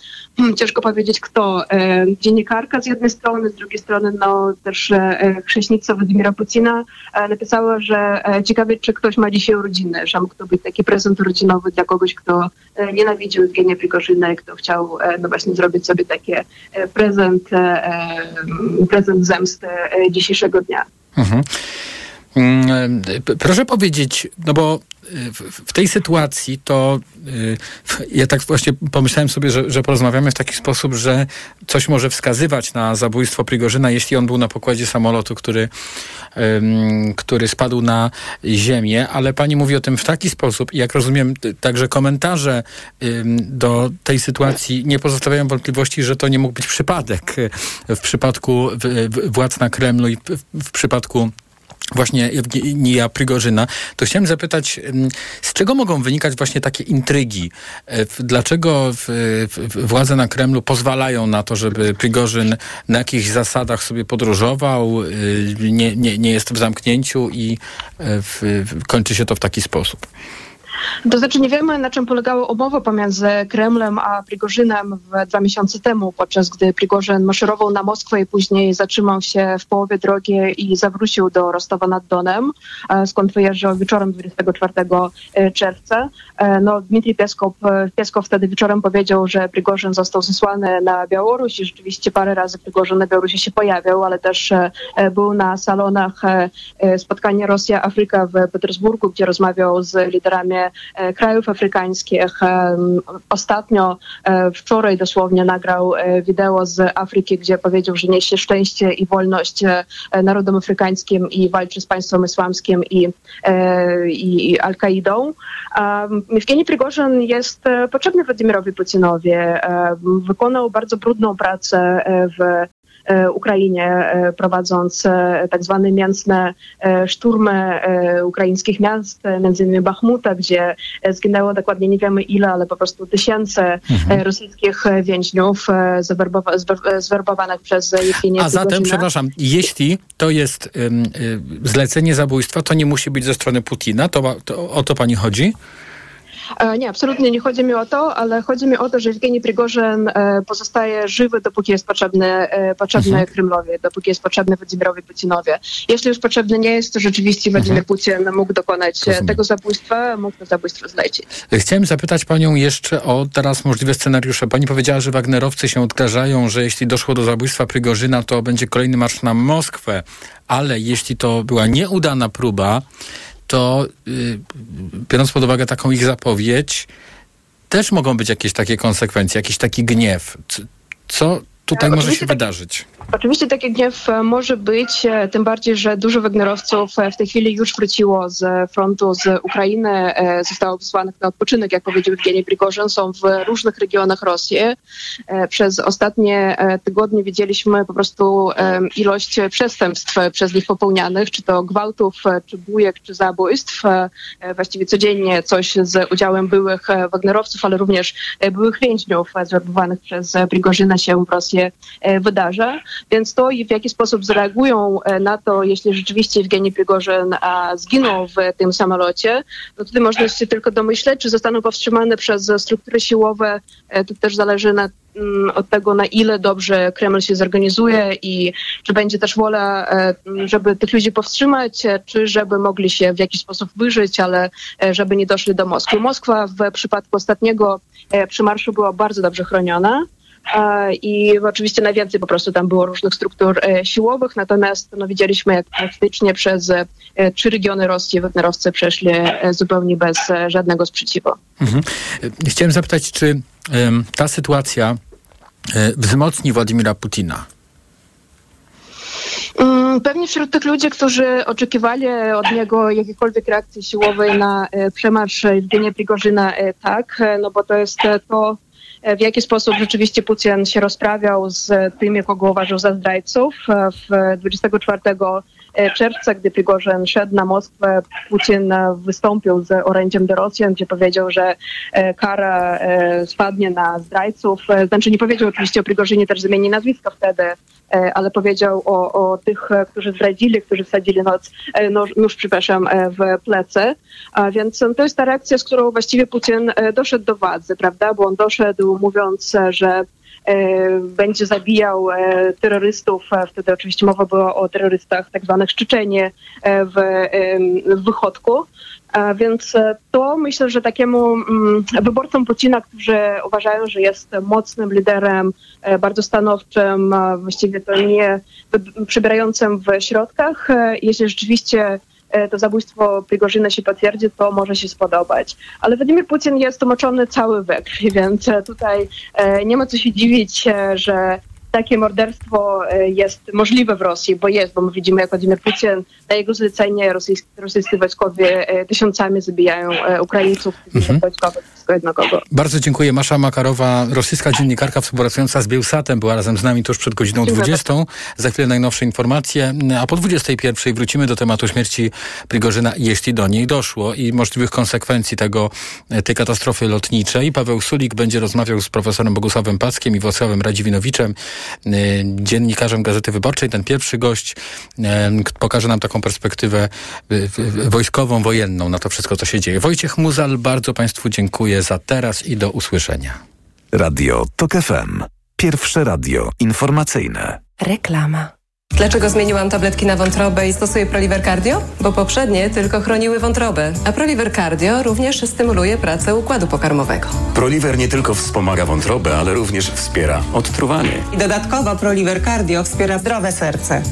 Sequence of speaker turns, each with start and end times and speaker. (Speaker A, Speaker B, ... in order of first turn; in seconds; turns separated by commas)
Speaker A: 0.4-20.9, Speaker B: 21.2-21.4, Speaker B: 22.3-35.7, Speaker B: 36.4-51.3, Speaker B: 51.9-70.1, Speaker A: 71.0-139.1, Speaker B: 133.9-134.2, Speaker B: 138.4-145.5, Speaker A: 146.6-161.3, Speaker B: 153.0-153.2, Speaker B: 159.1-159.4, Speaker B: 161.5-172.8, Speaker B: 173.5-176.9, Speaker B: 177.7-182.8, Speaker A: 181.8-182.4, Speaker A: 183.1-194.8, Speaker A: 195.3-251.4, Speaker B: 251.6-255.0, Speaker B: 255.7-257.4, Speaker A: 259.6-342.4, Speaker B: 342.5-373.4, Speaker A: 347.4-347.8, Speaker C: 373.9-377.6, Speaker D: 377.8-387.4, Speaker E: 387.5-391.2, Speaker F: 391.3-393.9